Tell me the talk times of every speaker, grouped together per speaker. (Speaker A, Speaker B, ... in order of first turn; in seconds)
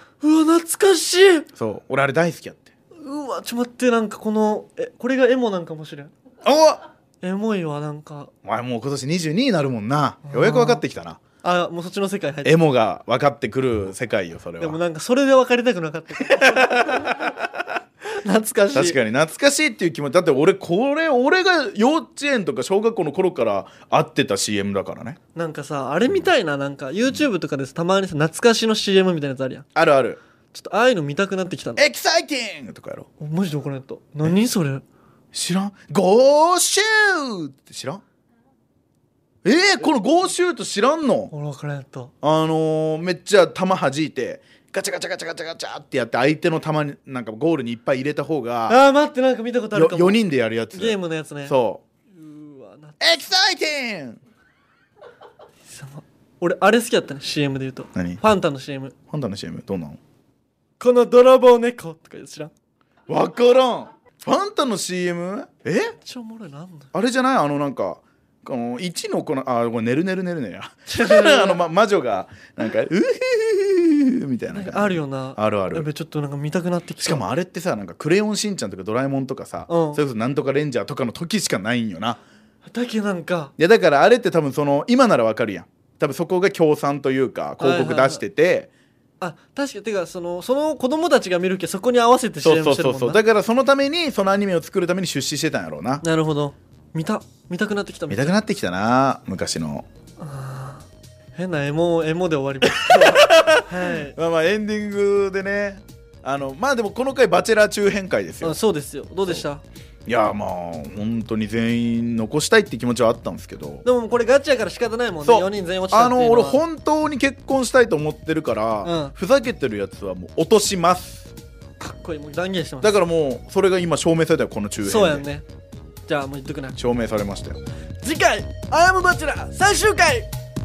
Speaker A: 0.2-1.5, 3.0-6.1, 7.2-8.3, 10.2-10.8, 11.4-12.6, 14.6-17.2, 18.1-19.0, 25.4-29.6, 30.5-31.9, 33.2-34.8, 41.3-42.1, 48.7-50.2, 50.7-51.6, 52.1-53.0, 55.7-58.9, 60.8-62.5, 66.0-66.9, 70.9-71.6, 74.5-77.2, 79.7-80.0, 82.7-83.5, 87.6-88.2, 89.2-93.2, 96.0-98.4, 100.2-104.2, 108.4-109.6, 113.8-116.6, 118.8-119.1, 121.8-123.0, 124.8-125.4, 126.1-126.8, 128.0-130.3
Speaker B: 1.6-2.7, 6.4-6.8, 8.4-11.2, 12.4-14.8, 16.2-17.6, 18.7-25.2, 29.7-30.2, 31.8-33.1, 35.3-38.0, 39.4-41.3, 42.2-48.8, 49.7-51.8, 53.0-54.2, 57.9-58.2, 59.1-60.0, 63.1-66.0, 66.9-75.9, 77.0-82.2, 83.6-88.7, 92.4-96.0, 98.1-99.9, 102.7-108.6, 110.1-113.8, 115.2-121.3, 122.8-125.2, 126.8-127.6